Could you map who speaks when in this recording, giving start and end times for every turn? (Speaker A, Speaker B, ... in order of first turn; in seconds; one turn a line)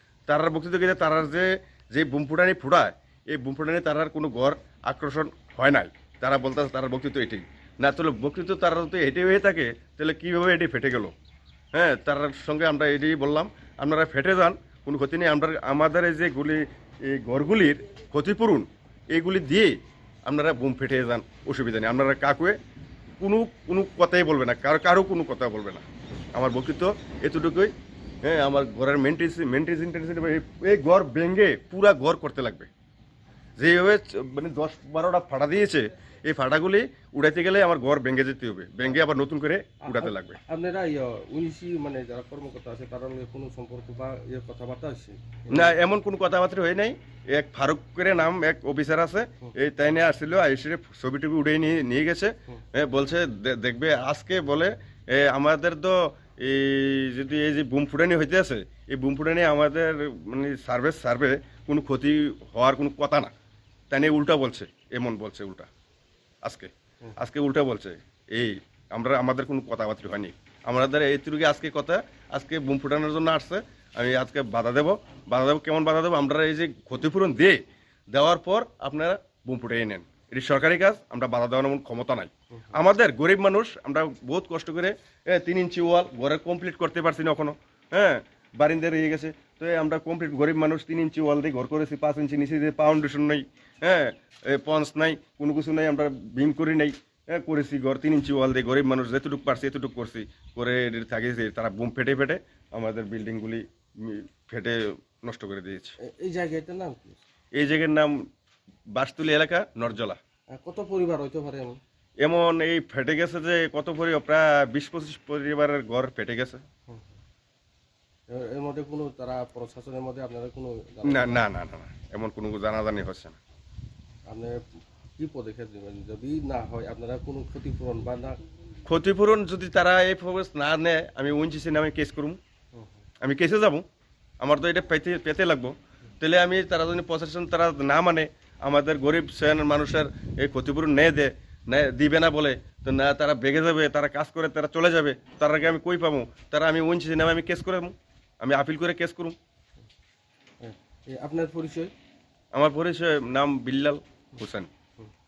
Speaker A: 0.3-11.2
Speaker A: 11.7-22.6
Speaker A: 23.2-27.7
Speaker A: 28.2-32.7
Speaker A: 33.6-40.4
Speaker B: 39.8-45.8
Speaker A: 45.5-63.3
Speaker A: 63.9-65.7
Speaker A: 66.4-77.6
Speaker A: 78.1-106.0
Speaker B: 106.0-107.2
Speaker A: 107.5-108.3
Speaker A: 109.0-110.2
Speaker B: 110.5-111.8
Speaker A: 112.2-116.6
Speaker B: 118.3-121.5
Speaker A: 121.0-123.4
Speaker B: 124.3-124.6
Speaker B: 125.2-128.4
Speaker A: 128.9-132.4
Speaker A: 133.2-133.8
Speaker A: 134.4-149.4
Speaker B: 150.6-151.9
Speaker A: 152.5-154.7